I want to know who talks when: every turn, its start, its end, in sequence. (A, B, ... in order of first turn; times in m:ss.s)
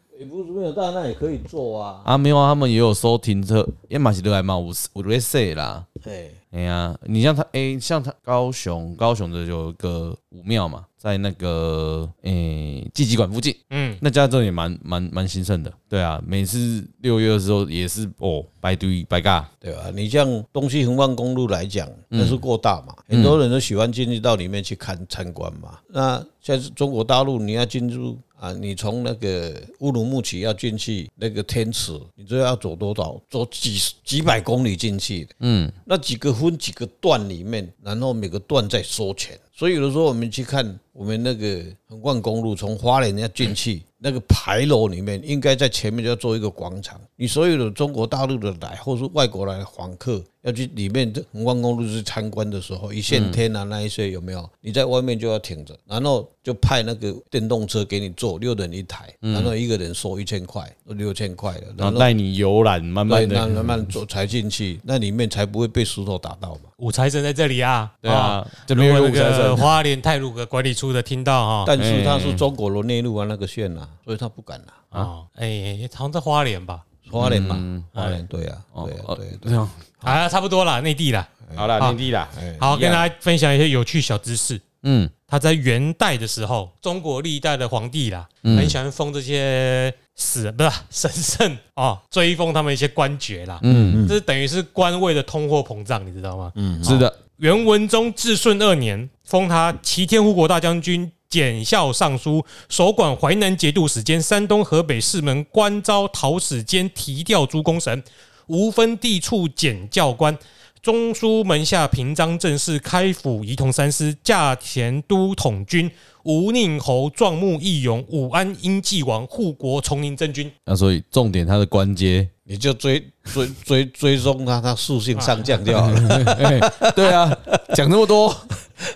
0:00.1-0:02.1 A
0:02.0-0:05.8 B
0:06.0-0:06.4 A
0:06.5-0:19.5 B
0:13.7-0:14.0 C
0:19.6-0:35.3 A
0:22.1-0:22.4 B
0:23.1-0:23.4 B
0:35.4-0:35.8 B
0:35.8-1:02.1 A
0:53.1-0:53.4 B
0:59.2-0:59.5 B
1:01.8-1:03.9 B
1:03.1-1:06.7 A
1:06.8-1:11.7 C
1:08.0-1:09.7 B
1:11.6-1:14.8 A
1:11.7-1:12.4 B
1:14.9-1:16.8 C
1:17.0-1:19.6 A
1:17.2-1:18.2 B
1:18.7-1:19.9 B
1:20.0-1:22.0 C
1:21.5-1:22.8 A
1:21.5-1:23.1 B
1:22.6-1:24.6 C
1:24.8-1:25.1 B
1:25.3-2:00.5 C
1:28.4-1:28.8 B
1:33.6-1:34.0 B
1:33.6-1:34.2 A
1:36.6-1:37.0 A
1:36.8-1:37.2 B
2:00.7-2:02.3 B
2:02.4-2:07.8 A
2:05.1-2:05.7 C
2:05.7-2:08.5 B